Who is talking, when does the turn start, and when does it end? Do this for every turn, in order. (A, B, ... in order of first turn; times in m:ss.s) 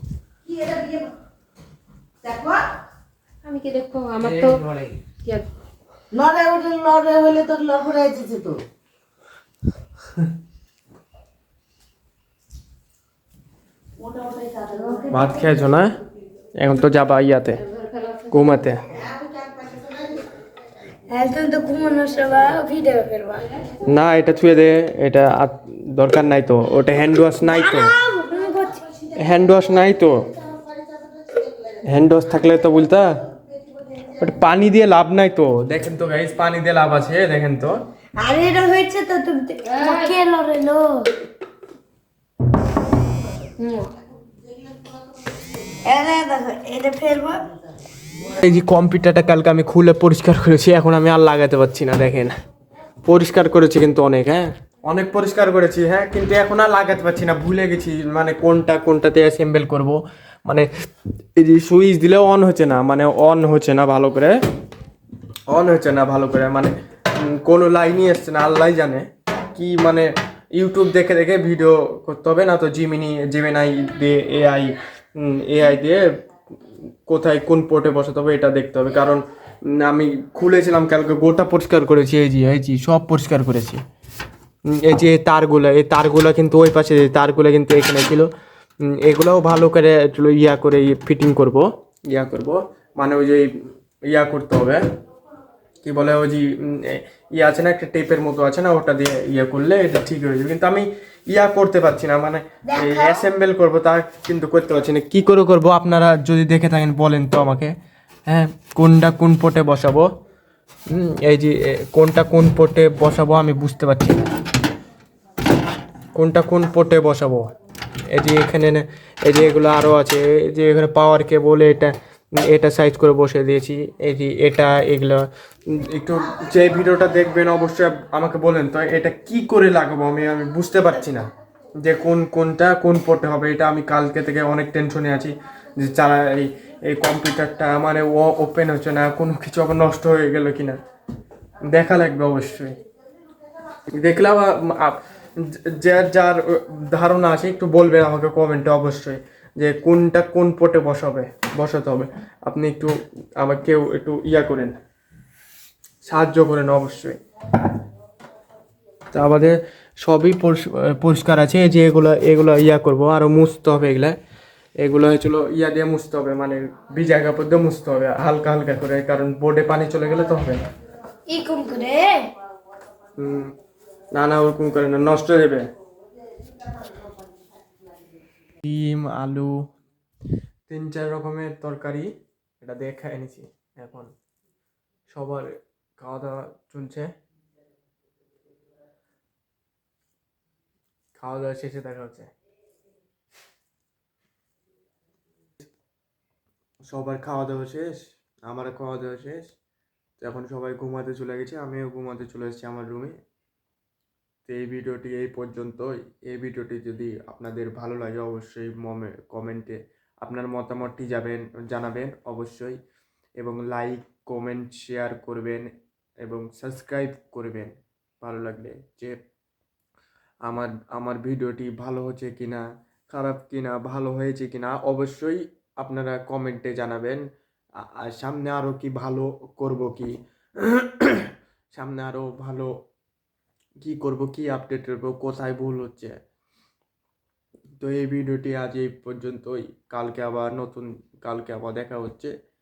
0:00.4-0:01.1 A
0:02.2-0:02.7 A
0:03.4-0:05.5 B
0:04.2-0:04.6 C
0:06.1-0:08.6 A
0:14.0-0:15.2 A
0:15.1-0:16.0 C
0:16.6-0:17.6 C
0:17.8-0:18.1 B
0:18.3-0:18.9 C
0:18.9-0:20.2 A
0:21.1-0:23.6 D
0:23.8-0:27.9 C
0:27.4-0:28.8 D
0:29.2-0:30.3 C
0:31.3-0:31.8 A
0:31.8-0:33.1 C
0:34.2-0:37.8 C
0:38.2-0:41.1 D
0:39.6-0:40.2 B
0:43.6-0:43.9 B
0:44.7-0:45.0 A
0:45.8-0:47.5 D
0:48.2-0:52.4 C
0:53.0-1:00.7 C
1:01.4-1:04.4 C
1:05.5-1:16.1 C
1:17.0-1:23.8 C
1:24.7-1:28.3 C
1:28.8-1:33.5 C
1:34.1-1:34.8 C
1:35.8-1:47.7 C
1:42.7-1:43.2 D
1:48.3-1:50.1 C
1:50.9-1:54.3 C
1:56.2-1:57.5 C
1:58.1-2:11.3 C
2:11.8-2:20.8 C
2:21.7-2:22.8 C
2:24.0-2:34.8 C
2:36.0-2:37.2 C
2:39.1-2:44.2 C
2:44.8-2:50.6 C
2:51.3-2:52.3 D
2:53.2-2:53.5 C
2:54.1-2:55.7 C
2:58.6-2:59.7 C
3:00.7-3:04.1 C
3:05.1-3:07.1 C
3:11.2-3:12.3 C
3:16.9-3:19.5 C
3:20.2-3:23.2 C
3:24.5-3:32.8 C
3:33.4-3:35.7 C
3:36.2-3:39.2 C
3:40.4-3:47.2 C
3:47.8-3:52.7 C
3:53.8-3:56.2 C
3:57.8-4:02.3 C